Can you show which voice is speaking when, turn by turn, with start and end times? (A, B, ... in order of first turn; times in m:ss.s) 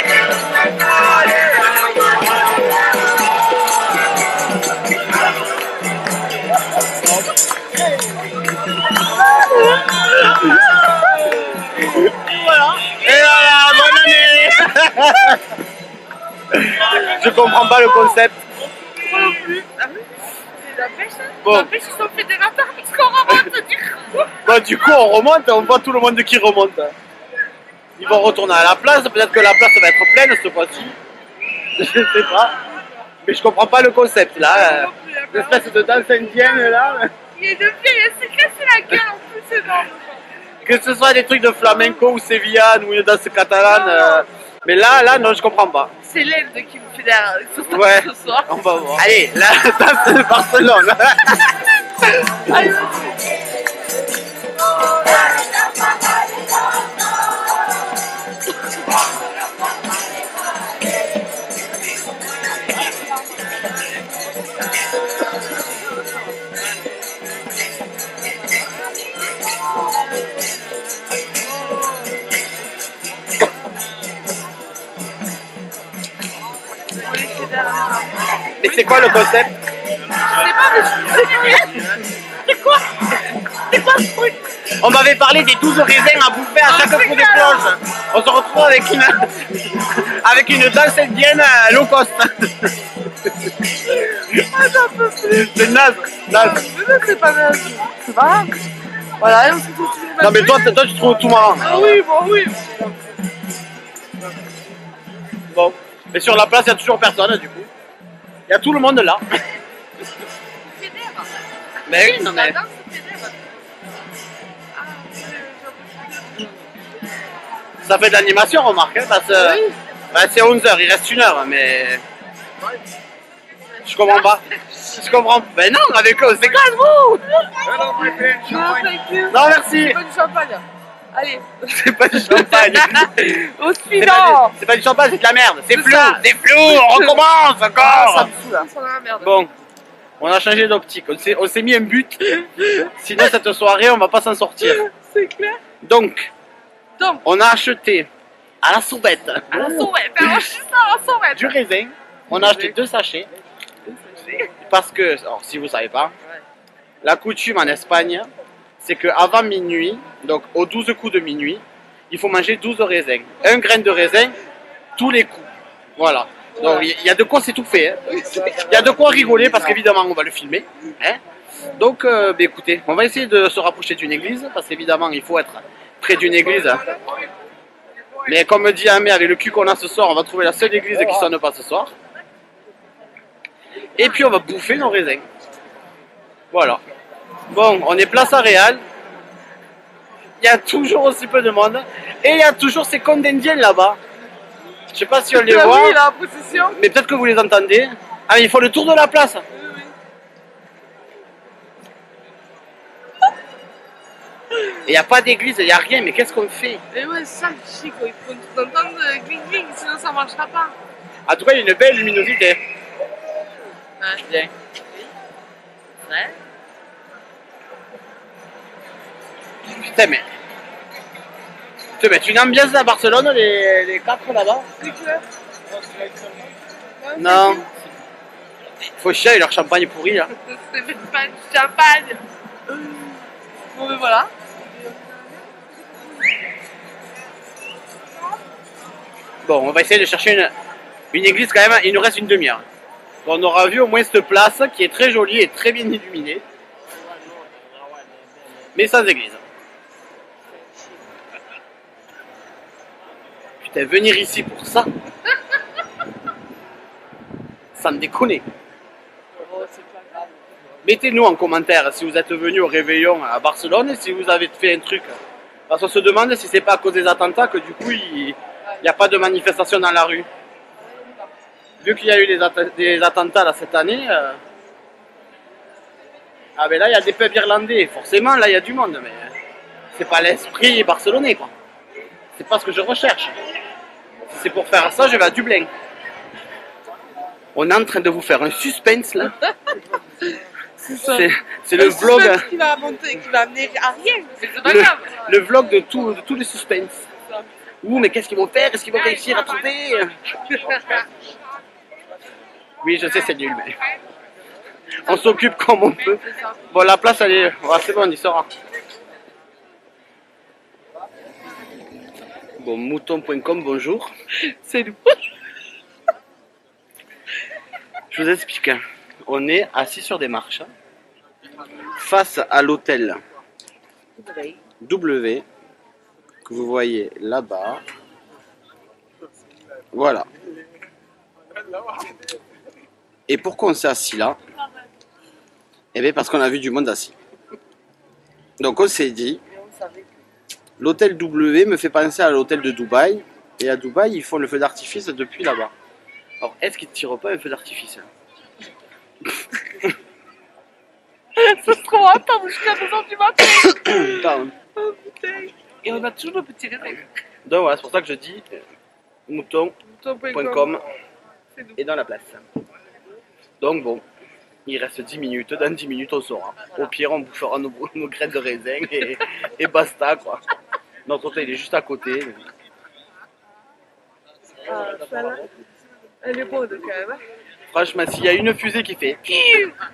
0:09.4-0:15.4 A
0:09.5-0:09.8 B
0:11.5-0:15.1 B
0:16.5-0:18.4 A
0:16.9-0:18.2 B
0:18.9-0:24.4 B
0:21.4-0:21.7 A
0:24.4-0:27.0 A
0:28.0-0:31.0 A
0:31.8-0:32.6 A
0:33.2-0:37.1 A
0:34.4-0:40.0 B
0:40.6-0:45.9 A
0:41.6-0:42.0 B
0:43.6-0:44.3 B
0:46.0-0:49.0 B
0:47.7-0:51.7 A
0:52.3-0:52.6 A
0:52.5-0:53.2 B
1:17.0-1:19.3 B
1:18.6-1:19.5 A
1:20.3-1:24.4 B
1:24.8-1:32.7 A
1:26.6-1:27.8 B
1:34.0-1:35.7 B
1:35.3-1:36.6 A
1:36.3-1:38.5 B
1:39.2-1:40.8 B
1:40.2-1:42.0 A
1:41.6-1:42.9 B
1:45.5-1:47.7 A
1:48.5-1:49.2 A
1:50.6-1:53.4 B
1:51.9-1:52.6 A
1:54.7-1:56.7 B
1:57.8-2:02.0 A
1:59.3-1:59.8 B
2:03.8-2:07.2 A
2:04.1-2:04.3 B
2:07.4-2:14.6 B
2:08.0-2:08.2 A
2:09.3-2:10.0 A
2:11.7-2:13.2 A
2:14.0-2:18.3 A
2:15.7-2:17.2 B
2:17.8-2:19.3 B
2:19.2-2:19.5 A
2:20.2-2:22.4 A
2:22.5-2:22.9 B
2:23.0-2:24.8 A
2:24.6-2:25.6 B
2:25.8-2:26.3 A
2:27.0-2:27.2 B
2:27.2-2:28.1 A
2:28.6-2:30.5 A
2:29.5-2:31.6 B
2:31.3-2:33.3 A
2:32.3-2:32.8 B
2:33.8-2:34.5 B
2:34.6-2:36.1 A
2:37.0-2:44.3 A
2:45.0-2:51.2 A
2:46.6-2:46.9 B
2:48.1-2:49.4 B
2:51.7-2:56.9 A
2:58.3-3:01.9 A
3:04.0-3:05.3 A
3:06.5-3:06.8 A
3:07.5-3:08.8 A
3:10.4-3:14.0 A
3:14.9-3:16.0 A
3:15.3-3:16.8 B
3:16.5-3:19.4 A
3:19.6-3:19.9 B
3:24.8-3:26.8 A
3:26.9-3:30.7 B
3:31.3-3:32.6 A
3:34.3-3:34.5 A
3:36.1-3:36.4 B
3:39.7-3:40.3 A
3:42.0-3:44.7 A
3:44.8-3:45.2 B
3:47.0-3:47.7 B
3:47.2-3:47.6 A
3:49.0-3:50.3 A
3:50.4-3:53.1 B
3:53.7-3:55.5 B
3:59.4-4:00.5 A
4:01.1-4:02.6 A
4:03.2-4:06.4 A
4:08.8-4:09.4 A
4:13.6-4:14.9 A
4:17.8-4:18.4 A
4:19.4-4:20.4 B
4:20.8-4:25.2 A
4:25.7-4:30.3 A
4:31.0-4:31.2 B
4:31.8-4:34.4 A
4:36.6-4:39.3 A
4:39.9-4:41.5 A
4:42.4-4:43.4 A
4:44.3-4:45.7 A
4:47.6-4:49.3 A
4:50.2-4:55.3 B
4:51.0-4:52.5 A
4:54.6-4:57.0 A
4:57.8-5:00.2 A
5:00.5-5:01.1 B
5:02.8-5:03.8 A
5:05.0-5:08.5 A
5:12.6-5:14.1 A
5:14.4-5:15.3 B
5:18.1-5:20.7 A
5:21.9-5:23.2 A
5:24.2-5:24.6 B
5:24.8-5:25.4 A
5:26.5-5:27.8 A
5:29.9-5:30.3 A
5:33.3-5:34.4 A
5:35.9-5:37.2 A
5:38.6-5:39.4 A
5:39.5-5:40.1 B
5:40.8-5:45.7 A
5:46.4-5:48.1 A
5:51.4-5:57.0 B
5:53.8-5:54.5 A
5:57.5-5:58.6 A
5:59.3-5:59.8 A
5:59.9-6:00.8 B
6:00.3-6:00.8 A
6:01.8-6:02.4 A
6:03.6-6:04.0 A
6:04.7-6:10.4 A
6:11.1-6:12.4 A
6:14.6-6:15.5 B
6:16.2-6:17.2 B
6:17.7-6:19.4 A
6:19.3-6:19.8 B